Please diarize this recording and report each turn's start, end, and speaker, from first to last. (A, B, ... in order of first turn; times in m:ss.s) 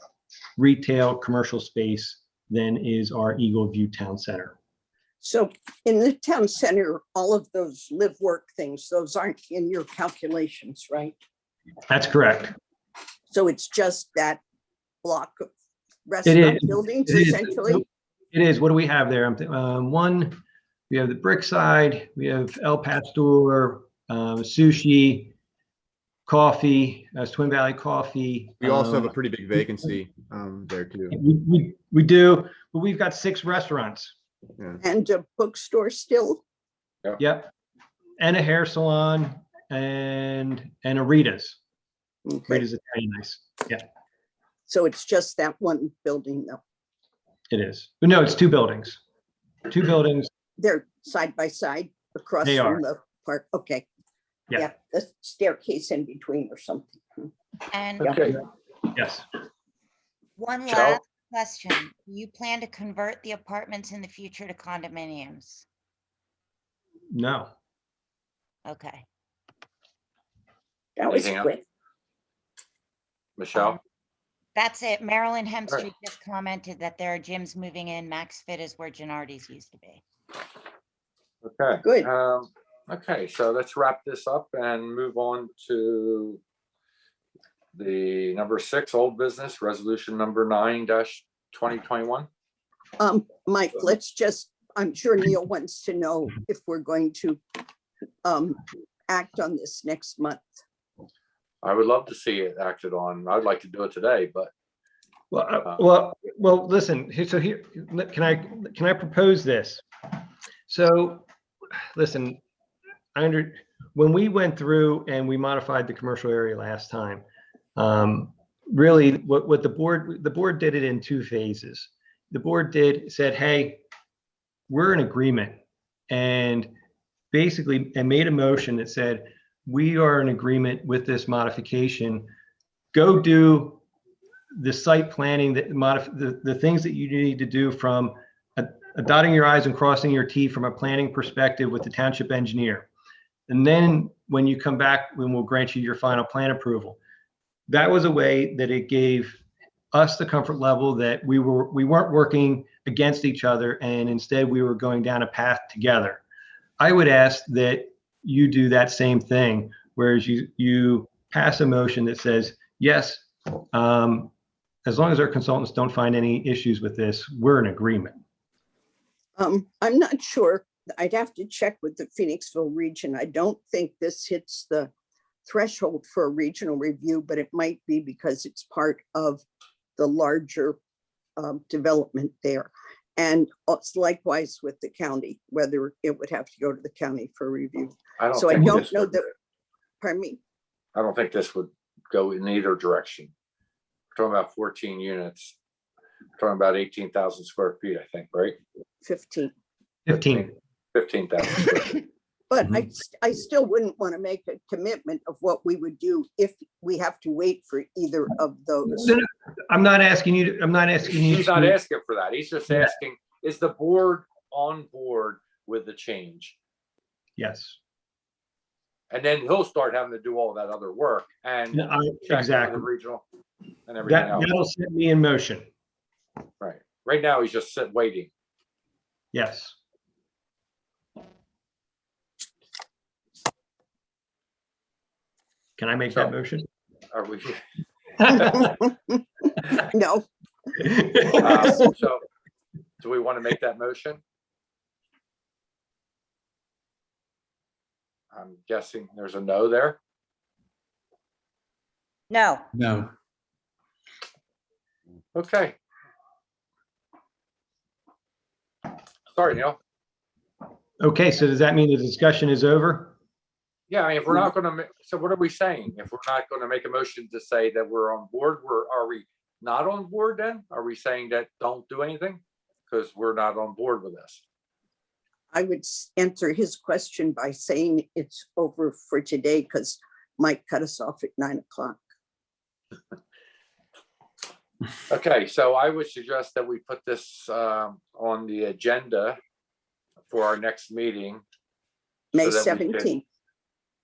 0:00.6-0:04.6 A
0:05.2-0:11.2 B
0:11.9-0:12.6 A
0:13.3-0:14.4 B
0:15.0-0:15.5 B
0:16.1-0:17.8 B
0:16.3-0:20.4 A
0:20.9-0:25.3 A
0:26.3-0:29.2 A
0:28.6-0:31.2 C
0:31.1-0:34.2 A
0:34.8-0:36.4 B
0:37.2-0:37.5 A
0:38.2-0:41.6 A
0:42.3-0:42.6 B
0:42.5-0:43.8 A
0:44.7-0:46.6 B
0:47.5-0:49.0 A
0:49.7-0:50.3 A
0:50.6-0:53.9 B
0:52.4-0:52.8 A
0:54.6-0:57.3 B
0:57.7-0:58.1 D
0:58.0-0:58.4 E
0:58.9-0:59.2 A
1:00.4-1:05.7 D
1:00.7-1:01.0 E
1:07.1-1:07.5 A
1:08.7-1:09.1 D
1:11.0-1:11.6 B
1:11.1-1:11.5 E
1:13.4-1:13.8 E
1:14.6-1:20.0 D
1:21.4-1:26.4 E
1:27.8-1:32.3 E
1:33.0-1:37.4 B
1:38.2-1:40.5 B
1:41.6-1:44.5 E
1:45.3-1:49.8 A
1:50.7-1:51.3 A
1:52.0-1:52.4 A
1:53.2-1:57.2 A
1:57.8-2:03.8 A
2:04.7-2:05.6 A
2:06.1-2:06.7 A
2:07.3-2:12.3 A
2:12.9-2:13.8 A
2:14.6-2:22.9 A
2:23.5-2:27.0 A
2:27.7-2:29.4 A
2:29.9-2:36.2 A
2:36.8-2:44.3 A
2:44.8-2:48.2 A
2:49.4-2:54.9 B
2:55.4-2:59.4 B
3:00.0-3:00.8 B
3:01.4-3:09.3 B
3:08.2-3:09.3 E
3:10.0-3:10.4 B
3:11.0-3:13.3 E
3:14.2-3:15.6 E
3:16.4-3:18.6 E
3:19.0-3:19.5 B
3:20.1-3:20.5 A
3:20.1-3:22.1 E
3:22.5-3:29.1 B
3:28.9-3:31.8 A
3:31.1-3:36.6 E
3:37.4-3:37.8 A
3:39.1-3:43.2 E
3:41.7-3:42.9 A
3:43.9-3:44.5 E
3:44.0-3:45.7 A
3:46.6-3:48.3 E
3:49.3-3:49.8 A
3:55.8-3:56.7 A
3:57.1-3:57.6 E
3:58.2-3:58.7 A
3:58.4-3:59.2 B
3:59.9-4:00.3 B
4:00.8-4:01.7 A
4:01.4-4:02.2 E
4:03.0-4:04.2 E
4:08.3-4:10.0 E
4:12.3-4:12.6 D
4:15.4-4:15.8 E
4:19.3-4:19.8 E
4:21.0-4:23.2 A
4:23.9-4:34.4 E
4:35.5-4:42.0 B
4:45.1-4:49.4 E
4:50.3-4:51.4 E
4:52.3-4:53.2 B
4:52.4-4:53.1 E